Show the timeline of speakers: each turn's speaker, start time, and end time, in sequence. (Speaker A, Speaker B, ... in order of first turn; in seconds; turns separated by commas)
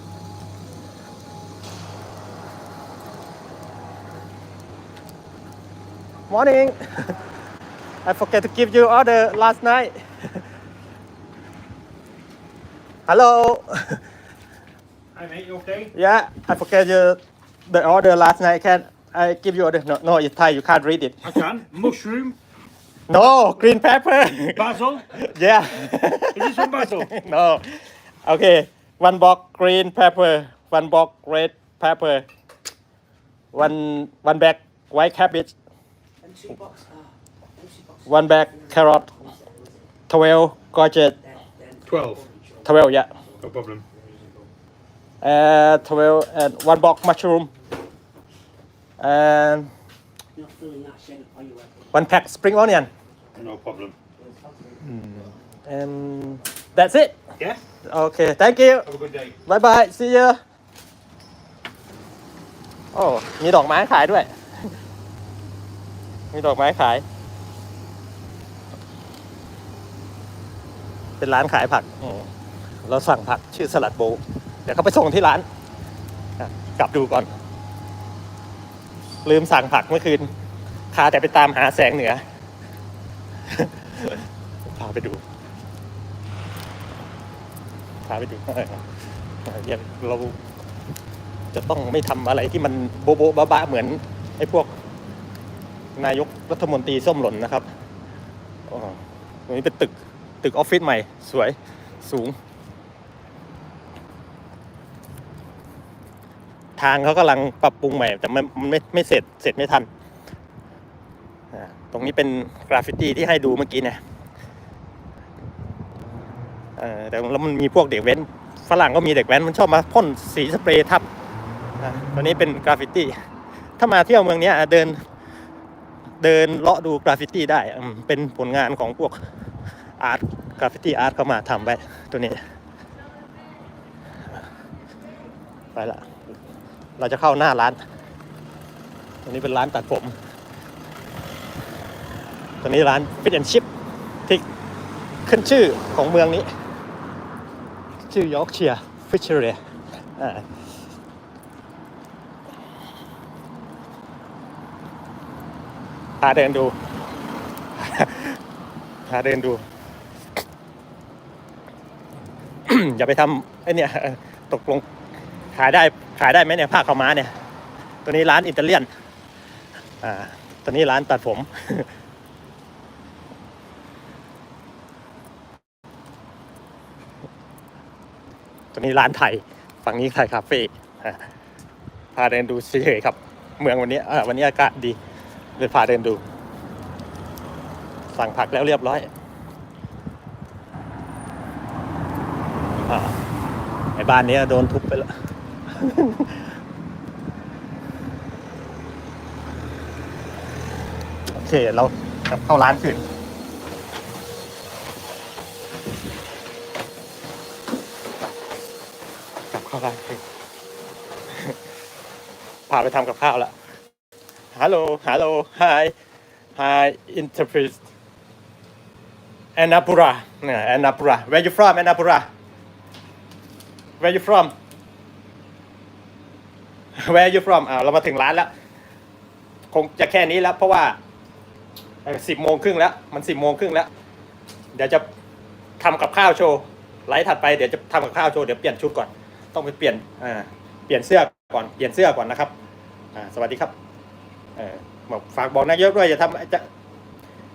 Speaker A: 6.3-7.2, Speaker A: 8.0-10.4, Speaker A: 13.1-14.0, Speaker B: 15.1-15.9, Speaker A: 15.9-21.3, Speaker B: 21.2-22.4, Speaker A: 23.1-32.2, Speaker B: 24.6-25.1, Speaker B: 26.3-27.1, Speaker A: 33.5-35.5, Speaker C: 36.3-37.0, Speaker C: 37.6-37.9, Speaker A: 38.0-39.1, Speaker A: 40.1-41.2, Speaker C: 41.4-42.5, Speaker B: 41.9-42.2, Speaker A: 42.6-43.1, Speaker B: 43.4-43.9, Speaker A: 45.2-47.5, Speaker A: 49.0-49.7, Speaker C: 50.4-51.7, Speaker A: 51.9-52.9, Speaker B: 53.4-54.0, Speaker A: 54.9-57.2, Speaker A: 57.9-58.9, Speaker B: 58.9-59.3, Speaker A: 59.4-60.4, Speaker A: 62.9-64.7, Speaker A: 66.3-67.0, Speaker A: 71.2-72.3, Speaker A: 72.8-75.5, Speaker A: 76.4-77.3, Speaker A: 79.2-80.3, Speaker A: 80.9-82.2, Speaker A: 83.5-85.2, Speaker A: 88.0-88.8, Speaker A: 89.4-90.4, Speaker A: 91.5-94.7, Speaker A: 96.0-97.7, Speaker A: 98.7-102.3, Speaker A: 106.8-109.9, Speaker A: 111.5-114.0, Speaker A: 116.8-121.0, Speaker A: 121.8-123.1, Speaker A: 123.8-125.0, Speaker A: 126.2-129.2, Speaker A: 130.0-132.4, Speaker A: 135.7-136.1, Speaker A: 137.0-137.8, Speaker A: 139.2-140.2, Speaker A: 142.6-143.7, Speaker A: 145.2-146.5, Speaker A: 148.1-149.6, Speaker A: 150.2-150.5, Speaker A: 156.2-156.7, Speaker A: 157.8-158.4, Speaker A: 159.1-159.6, Speaker A: 162.7-164.8, Speaker A: 165.5-167.3, Speaker A: 168.0-168.9, Speaker A: 170.0-171.9, Speaker A: 178.7-181.3, Speaker A: 182.2-185.0, Speaker A: 185.6-186.2, Speaker A: 188.1-189.1, Speaker A: 192.9-193.2, Speaker A: 193.9-195.2, Speaker A: 195.7-196.5, Speaker A: 201.3-203.1, Speaker A: 209.5-210.2, Speaker A: 212.7-213.5, Speaker A: 214.5-215.9, Speaker A: 216.6-217.8, Speaker A: 219.6-222.2, Speaker A: 224.0-224.5, Speaker A: 227.0-228.5, Speaker A: 229.7-231.0, Speaker A: 232.0-233.9, Speaker A: 234.7-235.1, Speaker A: 235.8-242.5, Speaker A: 243.1-243.7, Speaker A: 244.6-246.7